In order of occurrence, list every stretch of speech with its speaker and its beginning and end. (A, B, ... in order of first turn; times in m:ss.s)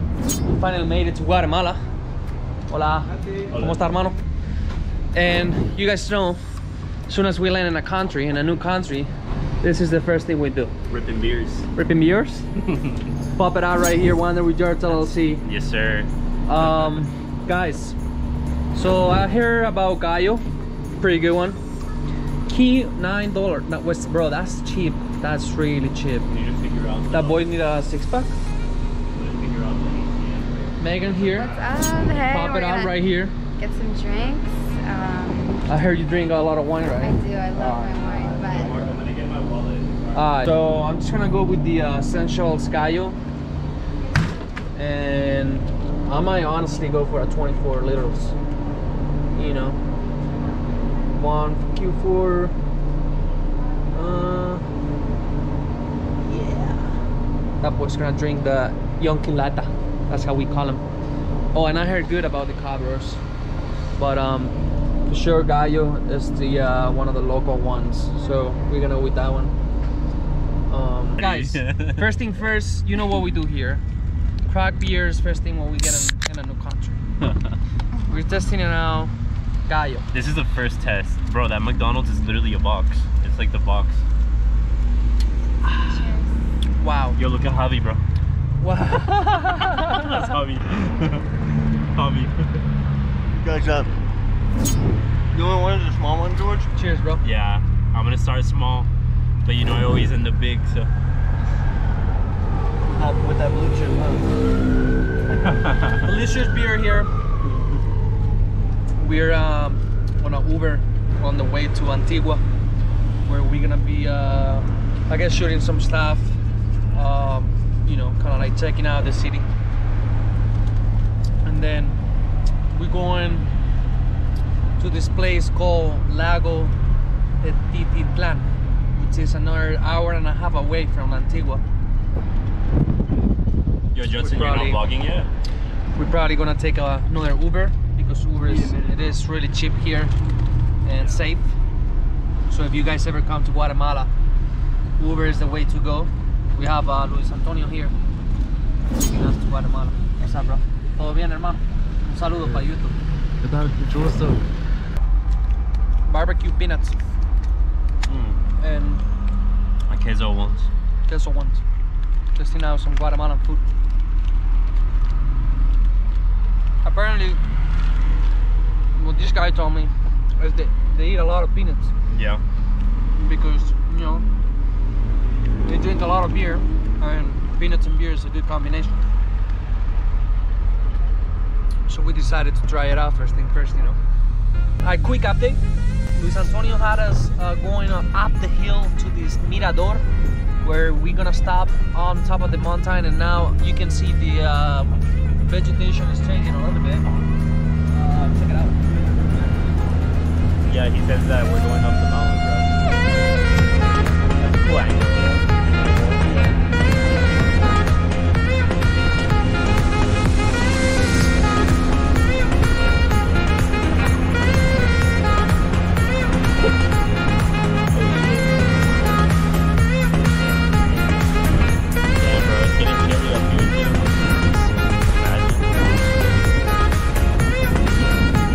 0:00.4-0:01.8 A
0:02.7-0:04.2 A
0:03.5-0:03.8 B
0:05.1-0:06.4 A
0:07.1-0:09.1 A
0:09.6-0:10.7 A
0:10.9-0:11.7 B
0:11.8-0:12.4 A
0:13.3-0:15.4 A
0:15.4-0:16.1 B
0:16.5-0:18.0 A
0:18.7-0:20.4 A
0:21.0-0:21.6 A
0:22.5-0:26.3 A
0:26.3-0:27.4 B
0:27.1-0:28.4 A
0:29.1-0:31.6 B
0:30.8-0:31.5 A
0:31.4-0:33.0 C
0:32.3-0:33.3 A
0:33.6-0:35.7 C
0:35.7-0:37.2 A
0:37.0-0:38.8 C
0:37.7-0:40.5 B
0:40.1-0:43.2 A
0:44.8-0:48.4 A
0:49.4-0:49.8 A
0:51.1-0:52.6 A
0:53.9-0:54.6 A
0:56.2-0:57.0 A
0:57.6-1:00.8 A
1:01.5-1:03.2 A
1:04.0-1:04.6 A
1:05.1-1:09.5 A
1:10.7-1:13.8 A
1:11.2-1:12.0 B
1:14.5-1:17.0 A
1:17.2-1:17.6 B
1:18.1-1:19.1 A
1:19.7-1:20.1 A
1:20.1-1:24.0 B
1:25.6-1:26.0 A
1:25.9-1:26.3 C
1:26.8-1:27.2 A
1:27.2-1:28.0 B
1:28.6-1:30.0 A
1:29.8-1:31.3 B
1:32.0-1:32.4 B
1:33.4-1:33.9 D
1:35.3-1:36.7 D
1:36.8-1:37.2 A
1:37.2-1:38.9 B
1:39.4-1:40.9 B
1:42.8-1:44.3 D
1:45.5-1:46.0 B
1:45.9-1:47.1 A
1:49.0-1:52.4 A
1:53.2-1:56.4 A
1:56.9-1:59.5 A
2:01.4-2:02.0 A
2:02.7-2:03.5 A
2:04.8-2:06.7 A
2:07.4-2:11.6 A
2:13.9-2:15.3 B
2:14.1-2:14.8 A
2:16.0-2:20.1 A
2:18.6-2:18.9 B
2:20.8-2:21.5 A
2:21.0-2:21.2 B
2:22.5-2:24.1 A
2:25.0-2:27.9 A
2:28.9-2:33.0 A
2:36.1-2:37.0 A
2:38.1-2:38.4 B
2:38.6-2:39.0 A
2:39.9-2:40.7 B
2:41.1-2:41.6 A
2:42.4-2:43.6 A
2:46.8-2:47.4 A
2:49.0-2:51.9 A
2:52.1-2:52.4 B
2:53.2-2:54.2 A
2:55.6-2:59.0 A
3:01.9-3:04.0 A
3:04.8-3:05.6 A
3:06.1-3:10.0 A
3:10.6-3:17.1 A
3:17.9-3:19.0 A
3:20.7-3:22.8 B
3:24.4-3:26.6 B
3:37.9-3:38.6 B
3:42.2-3:45.7 B